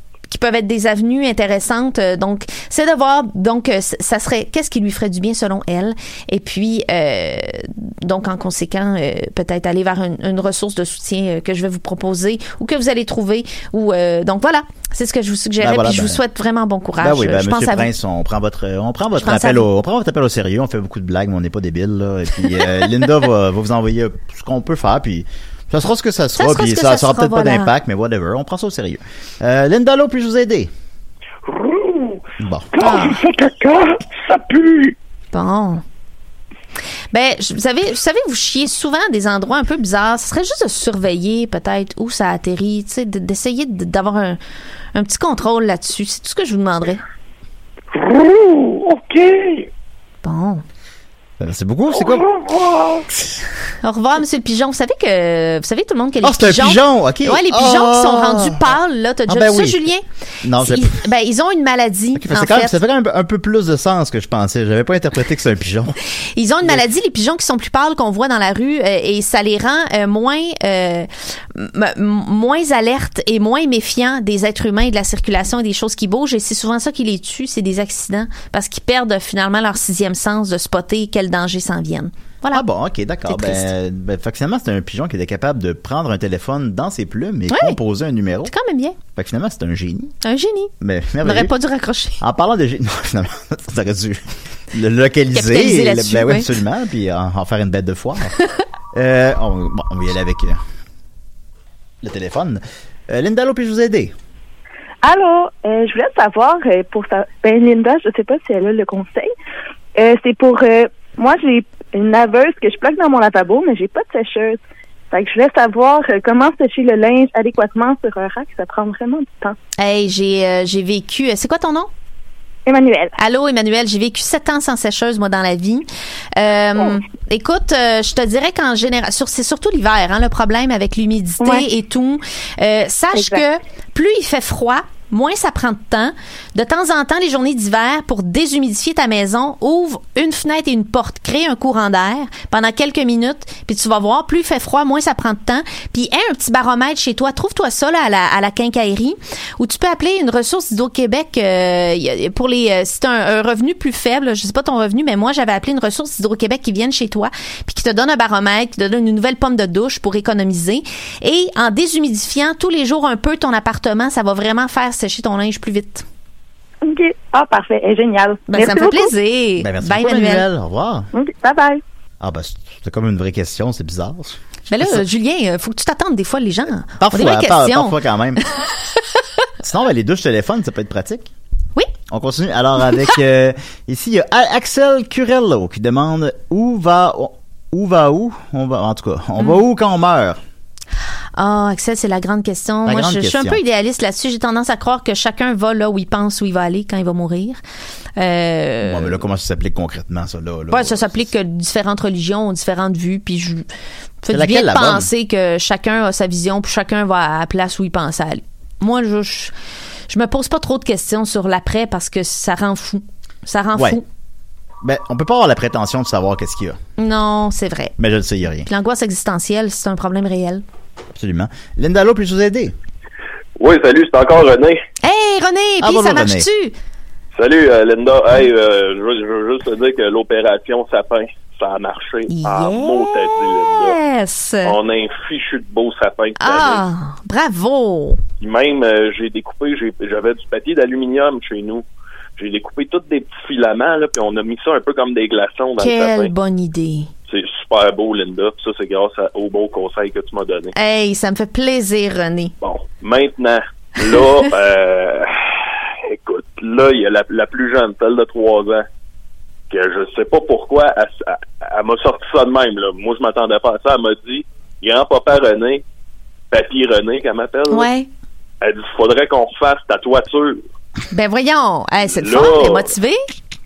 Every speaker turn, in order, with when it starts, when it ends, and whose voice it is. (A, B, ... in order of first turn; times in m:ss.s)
0:00.3-0:17.9 A
0:15.6-0:16.2 B
0:17.0-0:30.7 B
0:19.2-0:19.7 A
0:26.4-0:27.7 A
0:31.5-0:32.2 C
0:32.4-0:32.7 B
0:32.8-0:33.2 A
0:32.8-0:34.9 C
0:35.3-0:35.8 A
0:37.1-0:44.4 A
0:45.0-0:47.0 A
0:48.0-0:49.6 C
0:50.2-0:50.6 A
0:51.4-0:52.3 B
0:52.3-0:53.0 C
0:53.8-1:00.0 A
0:56.2-0:58.7 B
0:59.3-0:59.8 B
1:00.4-1:01.0 B
1:00.6-1:02.8 A
1:02.2-1:06.0 B
1:06.4-1:22.6 A
1:22.5-1:28.5 B
1:23.3-1:23.7 A
1:27.5-1:27.8 A
1:28.5-1:29.0 A
1:29.2-1:30.1 B
1:30.2-1:32.2 A
1:30.8-1:31.5 B
1:32.2-1:38.3 B
1:35.3-1:36.5 A
1:38.9-1:40.6 B
1:42.0-1:44.1 B
1:45.0-1:49.3 D
1:50.0-1:54.6 D
1:55.1-1:59.6 D
1:59.8-2:01.9 A
2:02.7-2:03.1 D
2:03.2-2:46.0 A
2:11.4-2:11.7 D
2:13.1-2:13.4 D
2:46.8-2:49.1 D
2:48.5-2:50.4 A
2:49.6-2:51.1 B
2:51.1-2:51.8 D
2:52.2-2:55.0 B
2:54.7-2:58.0 A
2:57.0-2:58.4 B
2:59.6-3:01.3 B
3:02.1-3:10.4 B
3:11.4-3:17.6 A
3:12.9-3:13.6 B
3:18.2-3:19.2 A
3:18.8-3:21.3 B
3:20.7-3:23.6 A
3:24.2-3:29.5 A
3:24.3-3:25.1 B
3:30.1-3:34.0 A
3:34.8-3:36.8 B
3:37.0-3:37.9 A
3:38.0-3:38.7 B
3:38.7-3:40.6 A
3:41.2-3:42.8 B
3:43.6-3:44.8 E
3:45.0-3:46.7 A
3:45.8-3:46.5 B
3:47.4-3:54.0 E
3:52.3-3:54.8 A
3:54.6-3:56.8 E
3:56.4-3:58.2 A
3:58.4-4:01.8 E
4:02.4-4:06.3 E
4:05.8-4:07.1 A
4:07.3-4:10.7 E
4:10.8-4:12.5 A
4:12.6-4:18.9 E
4:19.7-4:25.8 E
4:26.5-4:27.9 E
4:27.7-4:28.1 A
4:28.6-4:30.6 E
4:31.1-4:33.2 A
4:32.2-4:32.9 E